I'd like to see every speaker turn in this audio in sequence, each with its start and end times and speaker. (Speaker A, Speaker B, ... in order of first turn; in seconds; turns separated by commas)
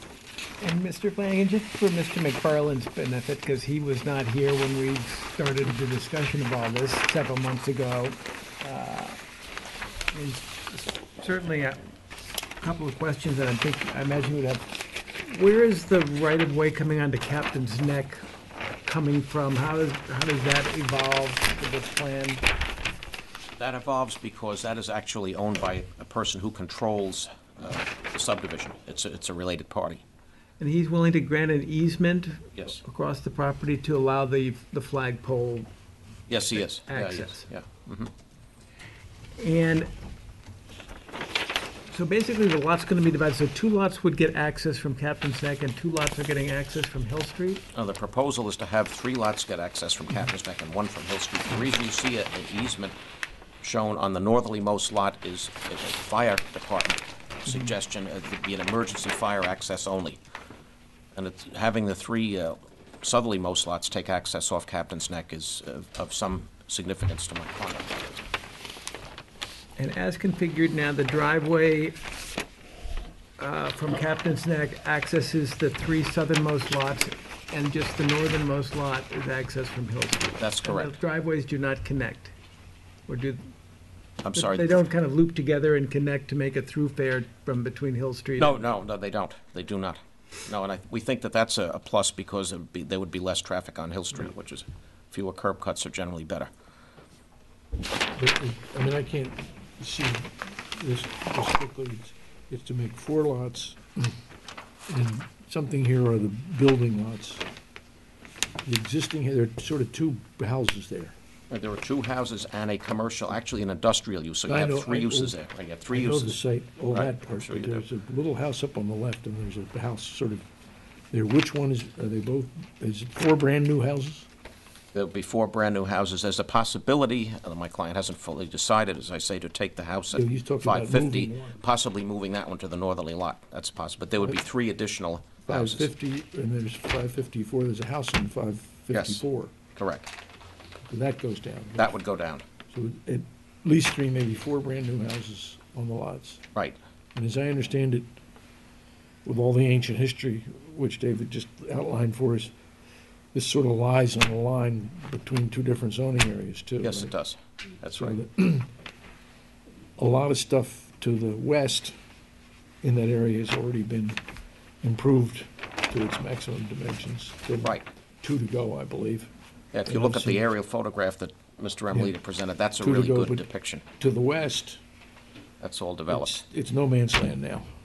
Speaker A: 0.6-9.2, Speaker A: 10.1-11.8, Speaker A: 12.6-14.7, Speaker A: 15.2-18.2, Speaker A: 18.8-22.4, Speaker B: 23.6-30.0, Speaker A: 30.6-35.7, Speaker B: 32.5-32.8, Speaker B: 36.3-38.1, Speaker A: 36.6-37.5, Speaker A: 39.4-39.9, Speaker A: 41.9-47.6, Speaker B: 47.7-53.0, Speaker B: 53.6-60.2, Speaker B: 61.1-68.2, Speaker A: 69.8-72.0, Speaker A: 73.4-82.3, Speaker B: 80.4-80.9, Speaker A: 83.1-83.5, Speaker B: 84.2-84.8, Speaker A: 84.3-88.6, Speaker B: 88.4-96.5, Speaker C: 98.1-104.2, Speaker C: 104.9-107.5, Speaker C: 108.6-111.1, Speaker B: 111.5-116.4, Speaker C: 114.5-115.4, Speaker C: 115.9-120.4, Speaker B: 116.9-117.9, Speaker C: 121.1-124.3, Speaker B: 124.9-135.9, Speaker C: 130.1-131.6, Speaker C: 135.5-139.6, Speaker B: 138.9-139.2, Speaker B: 139.8-140.1, Speaker C: 140.9-142.0, Speaker B: 141.8-142.4, Speaker C: 142.7-146.4, Speaker C: 147.2-148.1, Speaker C: 149.2-152.5, Speaker C: 153.3-157.1, Speaker B: 156.8-158.2, Speaker C: 158.0-158.7, Speaker C: 160.0-161.9, Speaker C: 162.8-164.2, Speaker C: 164.8-169.3, Speaker B: 167.6-167.9, Speaker B: 169.7-173.8, Speaker C: 169.8-170.4, Speaker C: 172.8-173.4, Speaker C: 174.0-174.8, Speaker B: 175.6-176.4, Speaker C: 176.1-177.7